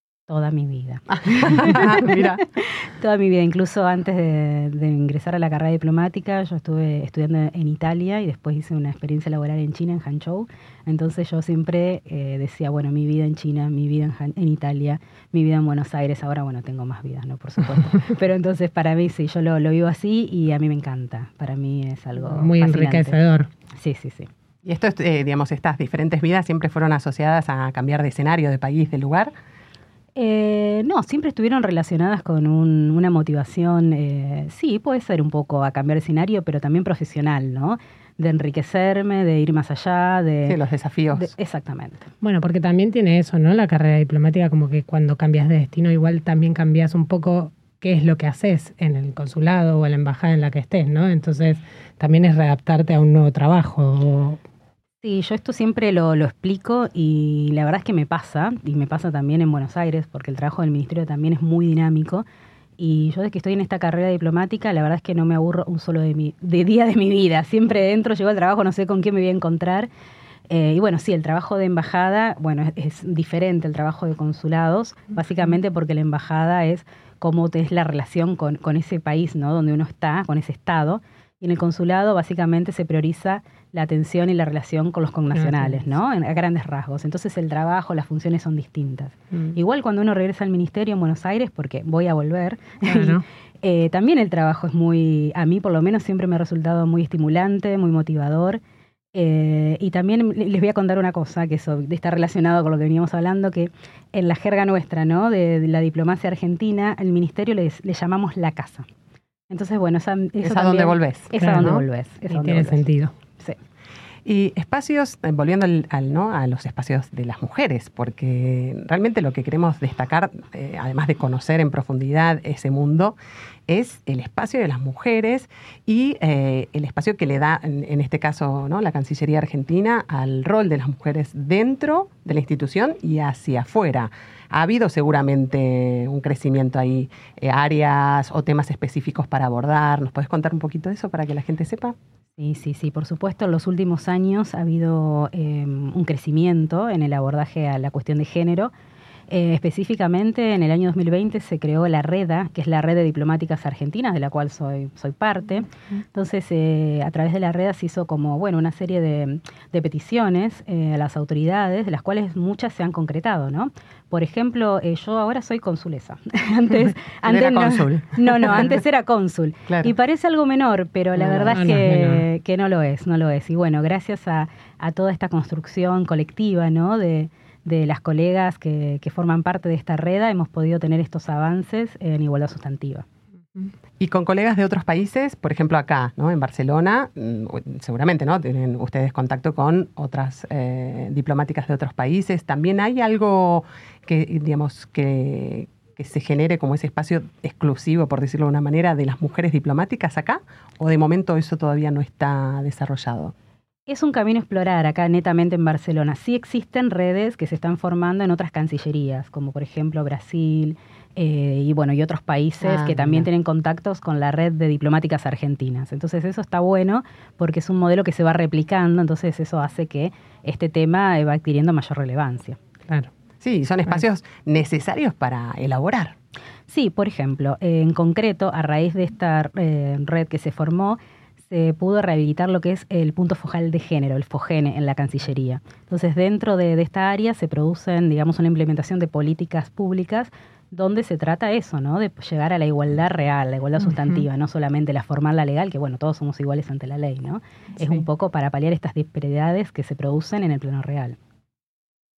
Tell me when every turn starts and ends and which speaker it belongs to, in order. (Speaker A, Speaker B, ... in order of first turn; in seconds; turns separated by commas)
Speaker A: 0.3-23.2, Speaker B: 1.6-2.4, Speaker C: 22.2-23.5, Speaker A: 23.8-24.3, Speaker B: 24.6-29.3, Speaker A: 30.2-40.6, Speaker B: 40.5-41.3, Speaker A: 41.1-42.1, Speaker C: 42.2-54.4, Speaker A: 55.0-62.3, Speaker A: 62.8-69.9, Speaker A: 70.5-98.6, Speaker C: 85.3-85.9, Speaker C: 92.8-93.2, Speaker A: 99.1-108.9, Speaker A: 109.5-112.8, Speaker B: 110.4-111.7, Speaker C: 111.4-113.1, Speaker B: 114.2-123.2, Speaker B: 123.7-142.0, Speaker A: 142.4-148.7, Speaker A: 149.3-183.1, Speaker B: 167.2-168.8, Speaker B: 169.7-169.9, Speaker B: 171.2-171.6, Speaker C: 171.5-172.3, Speaker B: 184.0-203.3, Speaker A: 203.9-222.6, Speaker B: 212.6-213.3, Speaker B: 223.4-226.2, Speaker A: 226.7-251.2, Speaker C: 243.8-244.2